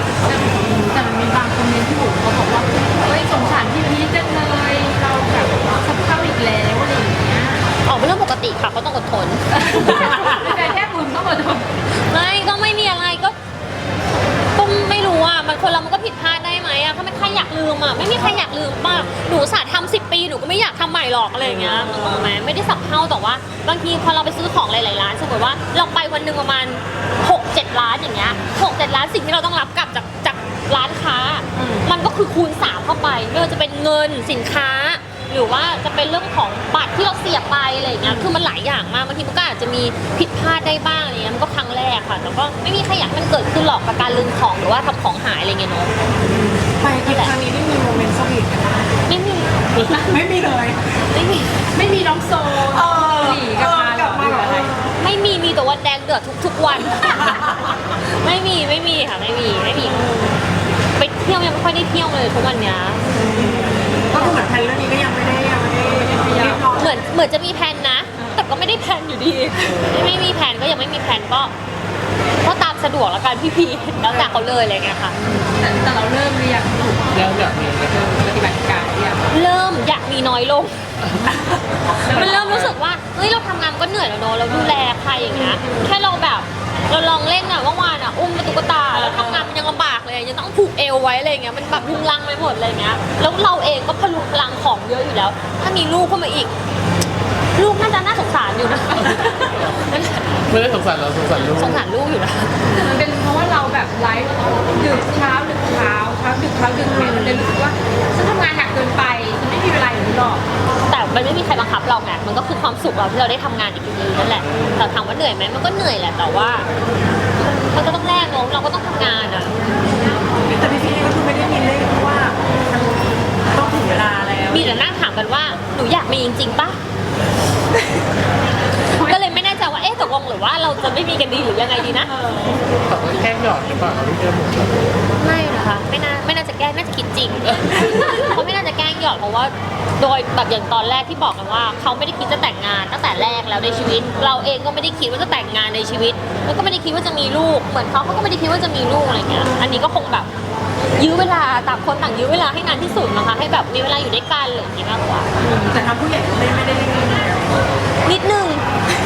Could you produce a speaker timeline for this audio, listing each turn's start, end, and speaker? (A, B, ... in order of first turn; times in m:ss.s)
0:00.2-0:07.7 A
0:07.8-0:10.4 B
0:09.5-0:11.7 A
0:12.0-0:13.3 B
0:14.5-0:45.9 B
0:21.4-0:22.3 C
0:31.5-0:31.9 C
0:38.0-0:38.3 C
0:46.2-0:49.0 C
0:47.0-0:47.3 B
0:49.1-0:49.6 B
0:49.7-0:50.1 D
0:49.9-0:51.0 C
0:51.1-0:51.6 B
0:51.7-0:54.7 A
0:52.5-0:55.0 C
0:55.0-1:00.1 B
0:57.0-0:57.5 C
0:59.8-1:00.4 C
1:01.0-1:03.0 B
1:03.1-1:07.0 C
1:05.9-1:06.7 A
1:06.7-1:11.5 B
1:09.6-1:10.1 D
1:12.4-1:15.2 B
1:15.2-1:19.3 A
1:17.1-1:18.1 D
1:19.3-1:20.8 B
1:22.0-1:22.7 A
1:22.1-1:36.5 B
1:28.9-1:29.5 A
1:37.5-1:40.3 B
1:39.0-1:39.8 D
1:40.5-1:41.8 D
1:41.6-1:42.6 B
1:42.7-1:50.4 A
1:46.9-1:47.4 C
1:50.9-1:56.7 B
1:57.4-1:59.6 B
2:00.4-2:04.8 C
2:04.5-2:06.8 B
2:08.9-2:09.2 A
2:09.0-2:12.1 B
2:12.2-2:12.6 C
2:12.9-2:14.8 D
2:15.2-2:30.3 B
2:30.9-2:35.3 B
2:35.4-2:37.5 C
2:38.0-2:38.6 B